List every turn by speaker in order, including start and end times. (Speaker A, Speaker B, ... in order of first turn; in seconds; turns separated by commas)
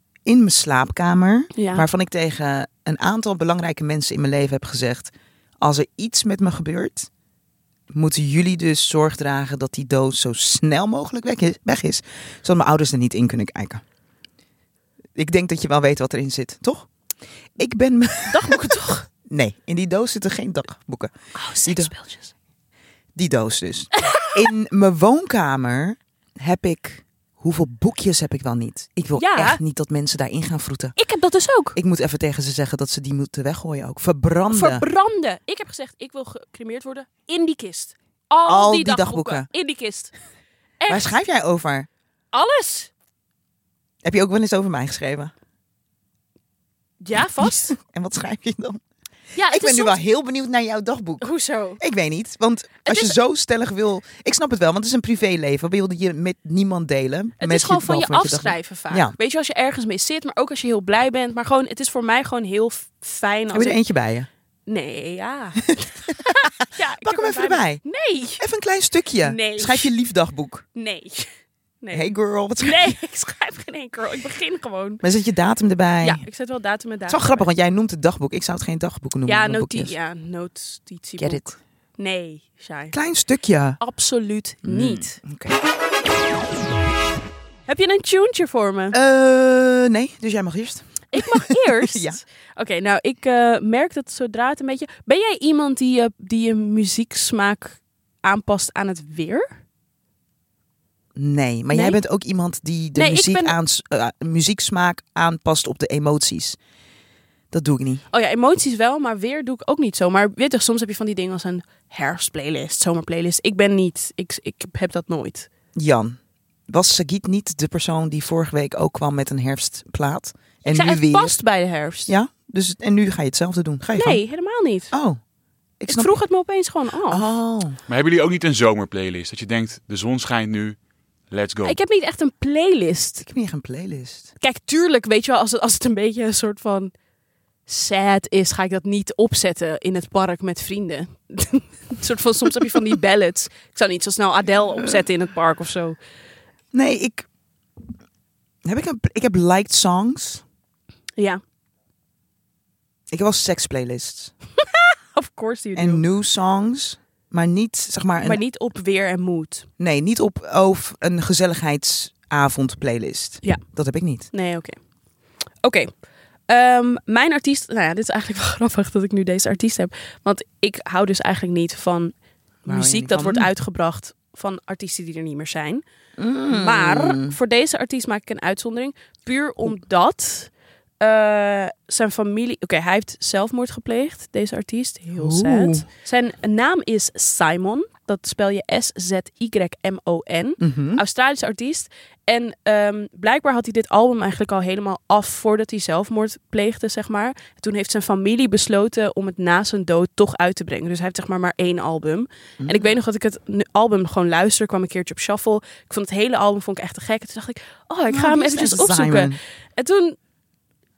Speaker A: 0.2-7.1, Speaker B: 1.6-1.9, Speaker A: 7.9-13.8, Speaker A: 15.2-16.9, Speaker A: 17.6-18.7, Speaker B: 18.3-19.1, Speaker A: 19.2-21.1, Speaker B: 21.3-22.3, Speaker A: 21.6-21.9, Speaker A: 23.1-30.9, Speaker B: 24.0-24.3, Speaker B: 29.1-29.6, Speaker B: 30.9-31.8, Speaker A: 31.7-34.8, Speaker B: 34.5-40.1, Speaker A: 38.5-39.5, Speaker B: 40.8-41.2, Speaker A: 40.9-41.9, Speaker B: 42.3-42.9, Speaker A: 44.0-45.3, Speaker B: 47.0-47.7, Speaker A: 47.4-48.8, Speaker B: 49.3-50.0, Speaker A: 49.5-51.3, Speaker B: 51.2-51.8, Speaker A: 51.8-59.1, Speaker B: 52.9-53.1, Speaker B: 57.4-63.8, Speaker A: 63.5-64.3, Speaker B: 64.7-68.4, Speaker A: 65.8-67.8, Speaker A: 68.4-70.7, Speaker B: 69.2-69.9, Speaker B: 70.8-71.3, Speaker B: 71.8-75.0, Speaker A: 71.9-73.0, Speaker A: 75.0-76.2, Speaker B: 76.0-77.4, Speaker A: 77.1-79.9, Speaker B: 79.3-82.9, Speaker A: 81.2-81.5, Speaker A: 82.9-83.8, Speaker B: 83.8-85.2, Speaker A: 84.6-85.6, Speaker B: 87.7-89.0, Speaker A: 88.9-92.2, Speaker B: 91.1-99.5, Speaker A: 101.2-106.6, Speaker B: 101.7-102.0, Speaker B: 102.9-103.5, Speaker A: 107.5-108.0, Speaker B: 108.1-115.5, Speaker A: 115.7-116.2, Speaker A: 116.7-121.4, Speaker B: 120.7-122.1, Speaker A: 122.1-124.2, Speaker B: 124.0-124.9, Speaker A: 124.9-125.2, Speaker A: 125.8-126.2, Speaker B: 125.9-127.3, Speaker A: 127.1-127.8, Speaker C: 127.9-130.8, Speaker C: 131.3-131.8, Speaker B: 131.6-133.2, Speaker A: 133.2-134.3, Speaker B: 134.4-136.9, Speaker B: 137.7-146.0, Speaker A: 146.7-147.3, Speaker A: 148.6-150.4, Speaker A: 153.1-154.3, Speaker B: 154.6-156.0, Speaker A: 155.8-158.4, Speaker B: 158.2-159.7, Speaker A: 159.8-164.3, Speaker B: 164.3-164.8, Speaker B: 165.6-165.9, Speaker B: 166.5-172.1, Speaker A: 172.7-173.5, Speaker B: 172.7-175.8, Speaker A: 176.2-177.4, Speaker B: 176.5-210.2, Speaker A: 185.2-185.9, Speaker A: 190.6-191.0, Speaker A: 202.6-202.9, Speaker A: 208.1-209.4